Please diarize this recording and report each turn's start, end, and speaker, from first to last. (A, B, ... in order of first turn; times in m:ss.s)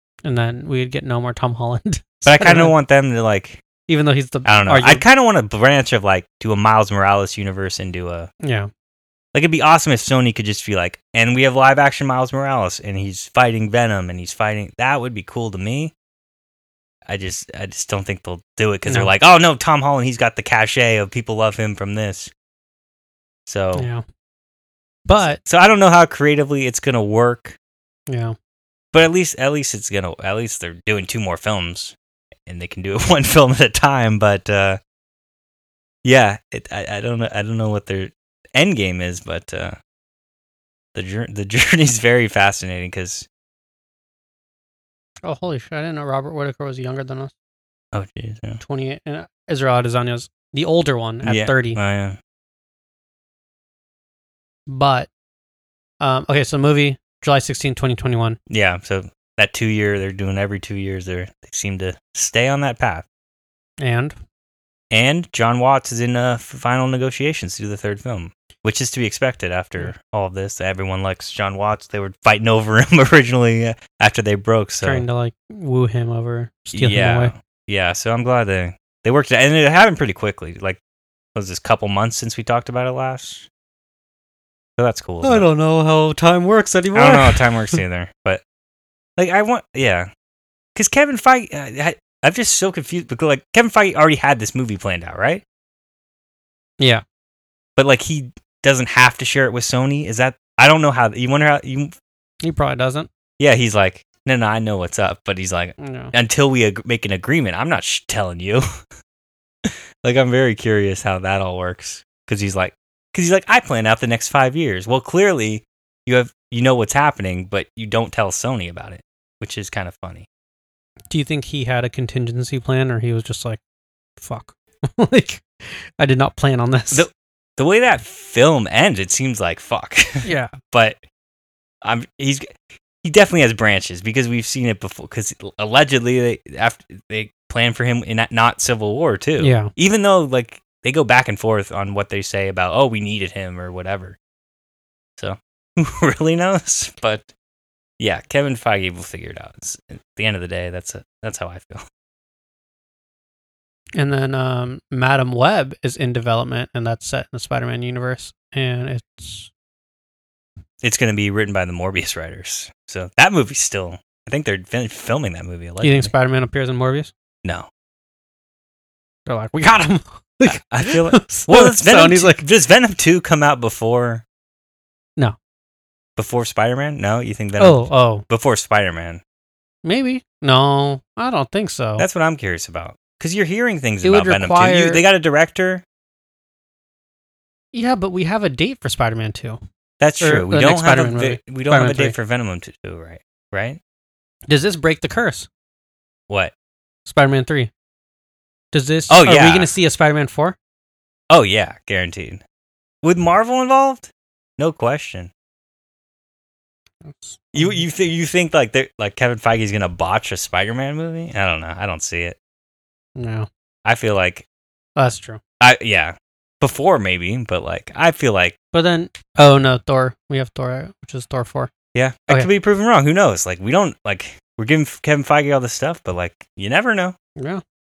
0:00.2-0:02.7 A
0:02.2-0:03.6 B
0:03.9-0:05.0 A
0:04.4-0:08.3 B
0:08.4-0:08.7 A
0:09.3-0:15.9 B
0:17.1-0:22.3 B
0:23.5-0:23.9 B
0:23.8-0:24.0 A
0:25.1-0:25.4 A
0:25.4-0:27.6 B
0:28.1-0:28.4 A
0:28.9-0:32.0 B
0:32.5-0:34.8 B
0:36.0-0:39.8 B
0:41.0-0:43.3 B
0:45.2-0:47.3 A
0:47.9-0:48.6 B
0:48.6-0:51.8 A
0:51.2-0:52.2 B
0:54.7-0:55.1 A
0:56.0-0:58.4 A
0:58.5-1:03.1 B
1:03.8-1:04.2 A
1:04.9-1:15.1 B
1:14.8-1:17.3 A
1:16.7-1:20.8 B
1:21.4-1:23.5 B
1:24.8-1:25.4 B
1:25.2-1:27.8 A
1:27.0-1:28.4 B
1:29.2-1:30.1 B
1:30.8-1:35.4 B
1:36.8-1:37.0 A
1:37.8-1:42.0 B
1:42.4-1:43.1 A
1:43.4-1:48.6 B
1:45.8-1:46.1 A
1:49.6-2:00.3 B
2:01.1-2:03.6 A
2:04.2-2:07.1 A
2:06.9-2:11.0 B
2:10.2-2:10.6 A
2:11.8-2:24.2 B
2:19.4-2:19.7 A
2:25.2-2:27.3 B
2:28.0-2:31.8 B
2:34.0-2:39.5 A
2:40.8-2:46.1 B
2:45.8-2:47.1 A
2:47.4-2:47.7 B
2:49.3-2:52.4 A
2:50.5-2:54.2 B
2:56.2-2:59.2 B
2:57.6-2:58.2 A
2:59.8-3:02.0 A
3:02.0-3:05.8 B
3:04.0-3:05.0 A
3:07.7-3:09.6 A
3:10.0-3:13.8 B
3:10.2-3:12.2 A
3:14.5-3:15.5 A
3:17.1-3:17.7 A
3:18.7-3:20.6 A
3:19.1-3:19.7 B
3:21.3-3:22.4 B
3:23.0-3:25.3 B
3:27.0-3:27.8 A
3:27.6-3:32.4 B
3:33.2-3:33.5 A
3:33.8-3:34.4 B
3:35.0-3:35.4 A
3:35.6-3:38.6 B
3:38.7-3:41.7 A
3:42.0-3:47.2 B
3:47.4-3:47.6 A